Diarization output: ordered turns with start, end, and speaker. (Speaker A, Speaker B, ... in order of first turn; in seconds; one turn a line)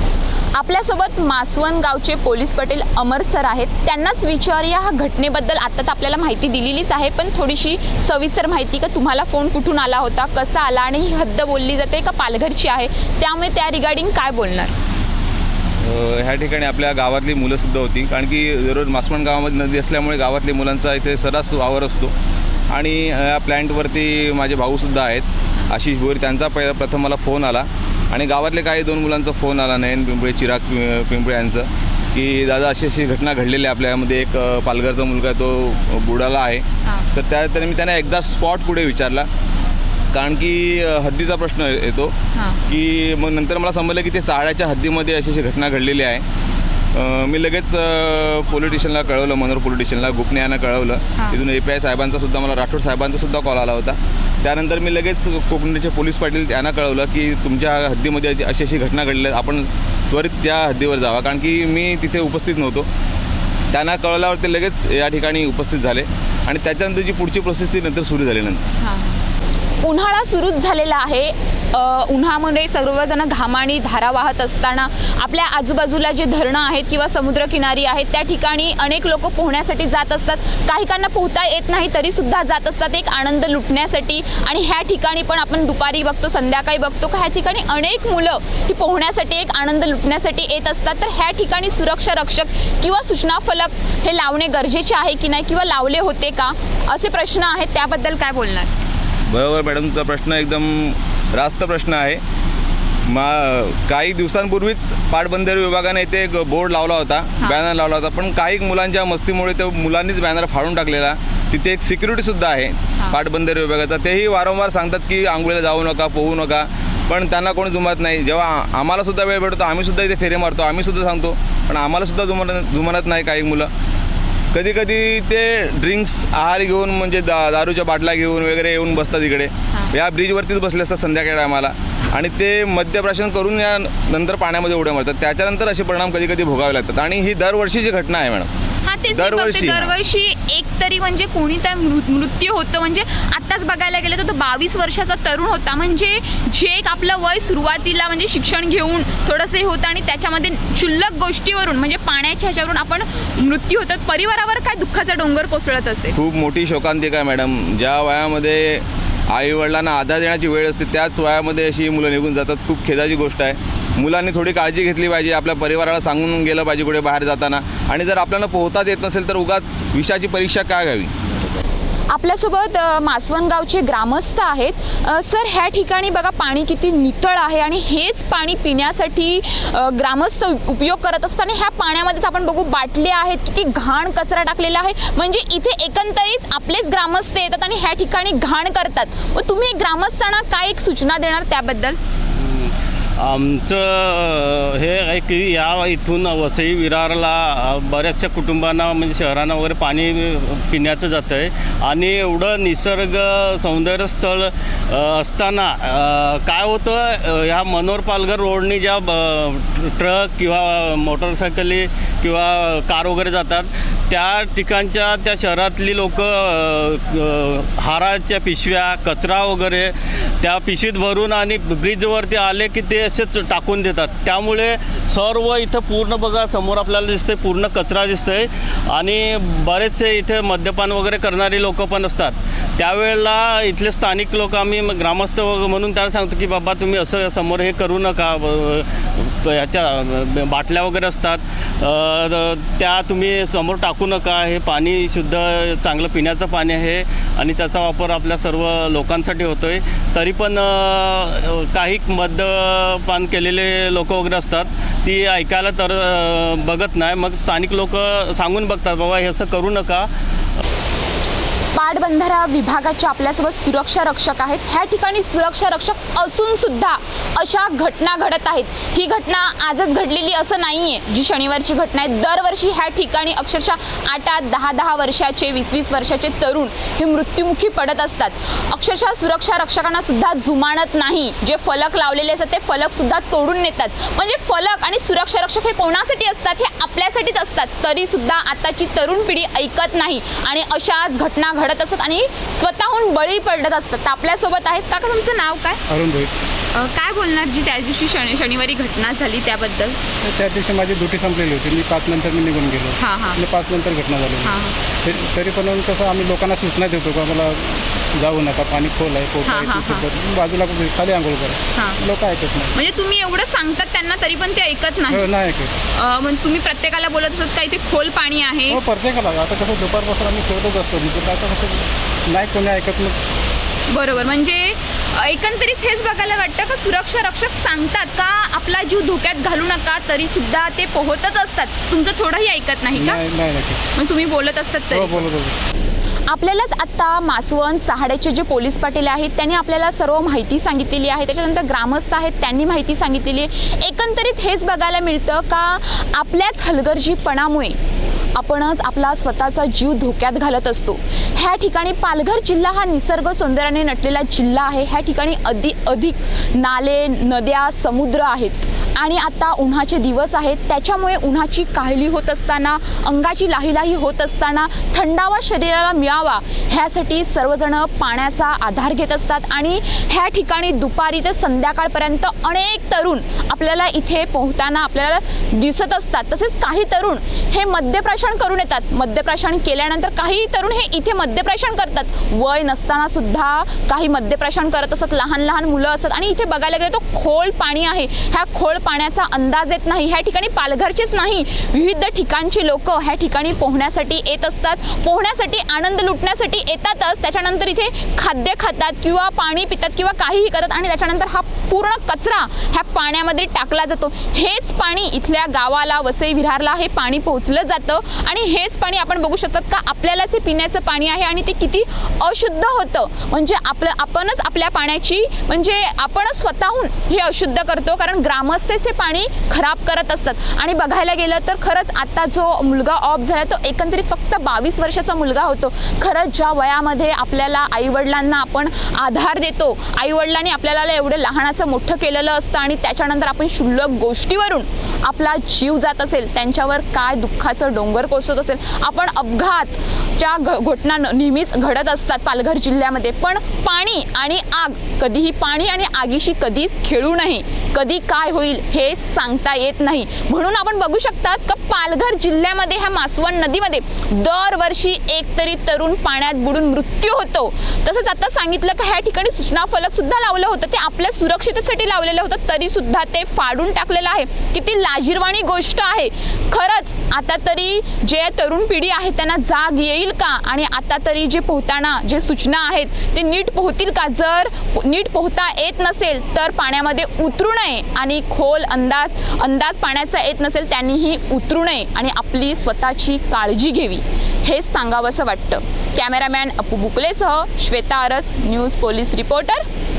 Speaker A: 0.5-14.7
Speaker B: 15.8-22.1
Speaker B: 22.7-39.3
Speaker A: 36.8-37.1
Speaker B: 40.1-42.1
Speaker A: 42.3-42.6
Speaker B: 42.7-46.2
Speaker B: 46.9-62.9
Speaker A: 51.1-51.4
Speaker B: 63.7-68.6
Speaker A: 68.8-69.2
Speaker A: 69.8-98.7
Speaker B: 99.3-102.2
Speaker B: 103.1-123.7
Speaker B: 124.5-138.5
Speaker A: 138.8-156.2
Speaker B: 139.1-139.9
Speaker B: 156.1-171.1
Speaker A: 172.1-192.0
Speaker C: 192.3-260.1
Speaker A: 261.7-295.8
Speaker D: 295.9-296.3
Speaker A: 296.7-300.0
Speaker D: 300.2-312.7
Speaker A: 303.0-303.4
Speaker A: 304.4-304.8
Speaker A: 309.4-310.0
Speaker A: 311.7-312.0
Speaker A: 312.7-315.3
Speaker D: 315.1-315.7
Speaker A: 315.9-318.8
Speaker D: 318.7-323.2
Speaker A: 323.9-333.2
Speaker D: 332.9-333.8
Speaker A: 333.9-335.2
Speaker D: 334.9-335.6
Speaker A: 336.3-347.8
Speaker A: 348.3-489.6